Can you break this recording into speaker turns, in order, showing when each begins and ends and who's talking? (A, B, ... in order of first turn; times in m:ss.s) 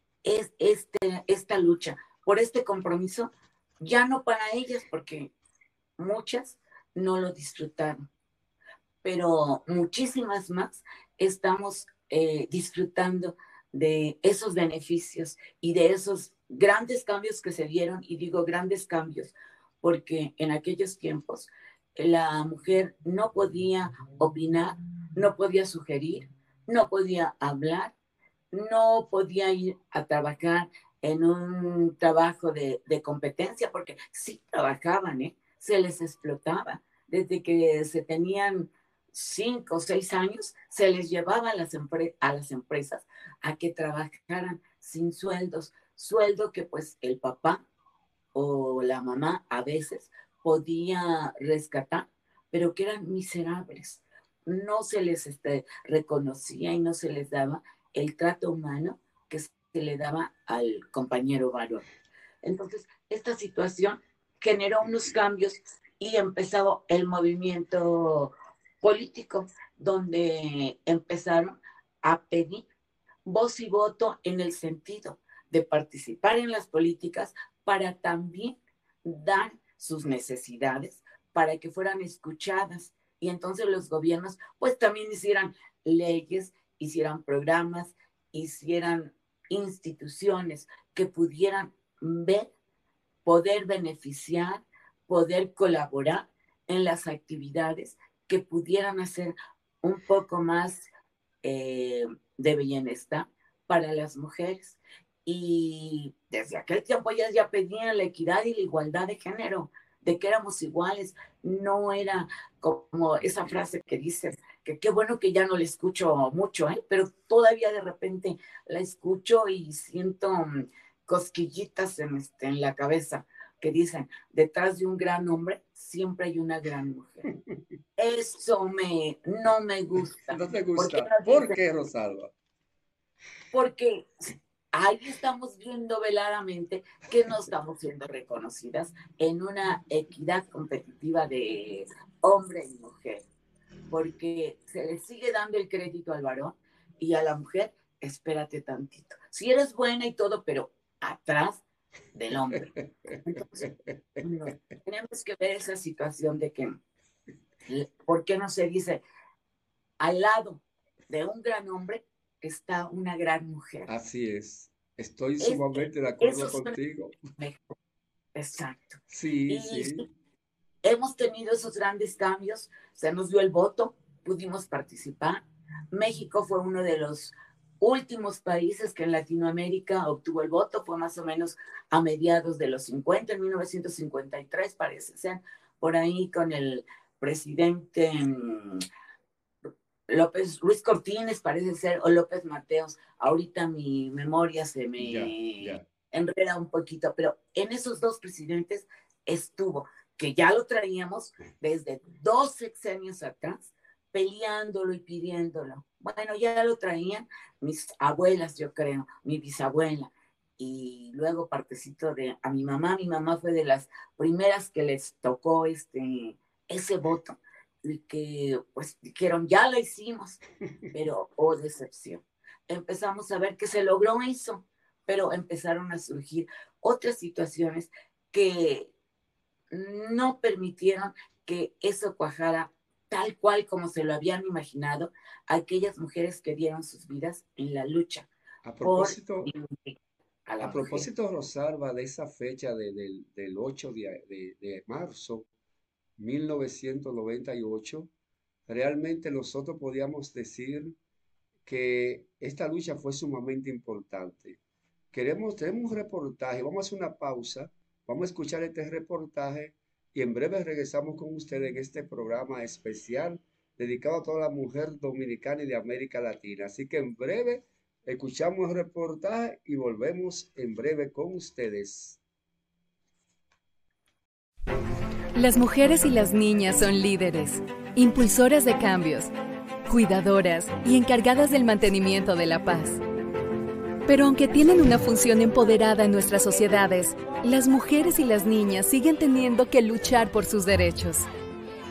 0:00.2-0:05.3 A
0:06.0-0:08.1 A
0:09.0-0:27.9 A
0:28.5-0:47.6 A
0:48.3-1:01.8 A
1:02.4-1:12.6 A
1:13.2-1:32.5 A
1:33.2-1:40.9 A
1:41.4-2:07.3 A
2:08.0-2:11.6 A
2:10.3-2:12.3 B
2:13.5-2:14.1 A
2:14.7-2:23.2 A
2:23.9-2:31.6 A
2:32.1-2:36.8 A
2:32.8-2:33.9 B
2:37.7-2:39.0 A
2:40.0-2:43.9 A
2:43.9-2:47.2 B
2:45.4-2:46.8 A
2:47.3-2:47.7 A
2:48.3-2:50.0 A
2:49.1-2:50.0 B
2:50.8-3:08.8 A
3:10.1-3:48.9 A
3:15.0-3:15.8 B
3:49.7-3:58.3 A
3:58.6-3:59.5 B
3:58.8-4:00.0 A
4:00.5-4:01.1 A
4:00.6-4:05.5 B
4:06.2-4:08.1 B
4:08.7-4:11.0 B
4:11.6-4:14.6 B
4:15.1-4:32.2 B
4:35.3-4:39.3 C
4:39.9-4:43.0 C
4:44.1-4:51.3 C